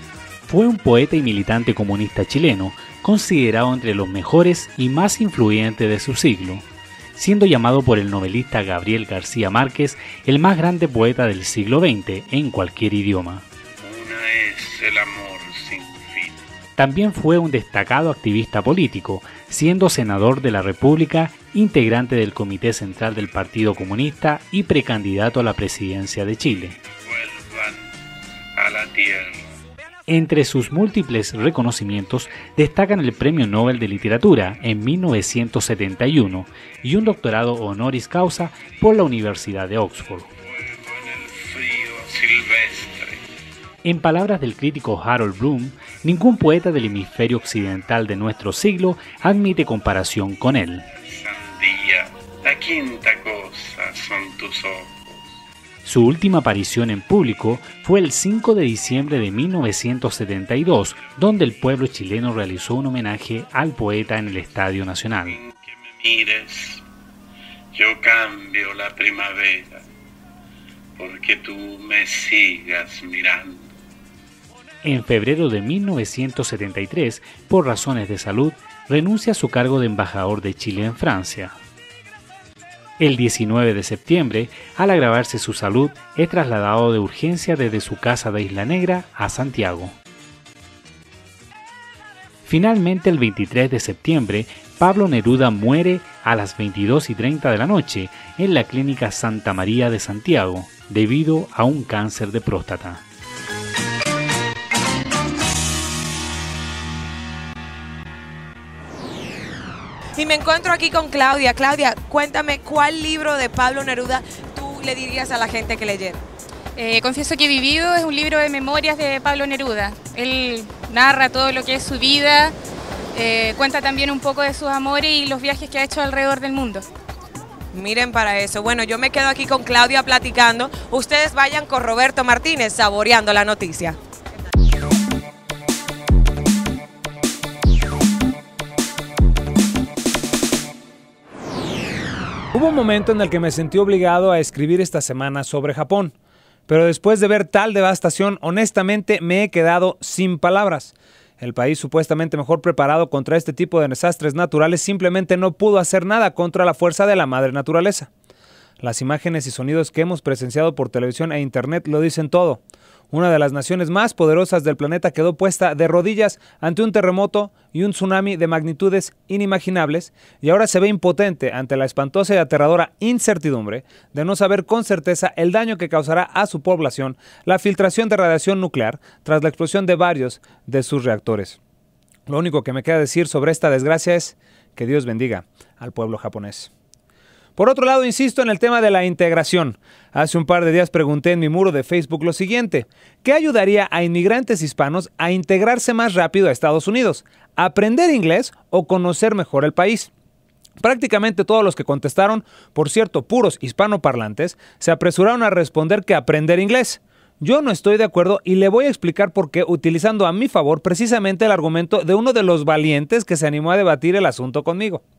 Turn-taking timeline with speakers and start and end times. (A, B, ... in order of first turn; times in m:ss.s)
0:00.5-0:13.4 A
0:13.8-0:16.4 B
0:16.8-0:26.8 A
0:27.0-0:27.8 B
0:28.6-0:29.3 B
0:30.1-0:40.3 A
0:40.8-0:43.1 B
0:43.8-0:50.8 A
0:51.1-0:52.0 B
0:52.5-0:55.2 B
0:55.8-1:05.4 A
1:05.3-1:06.8 B
1:07.8-1:09.8 B
1:11.0-1:13.7 B
1:14.8-1:21.6 A
1:23.0-1:30.0 A
1:32.4-1:43.0 A
1:50.2-1:56.2 C
1:56.8-2:02.6 D
2:03.1-2:06.9 D
2:07.7-2:14.0 C
2:22.5-2:26.1 E
2:26.7-2:38.1 E
2:38.8-2:42.6 E
2:43.1-3:01.6 E
3:02.3-3:06.7 E
3:07.6-3:20.1 E
3:20.8-3:35.0 E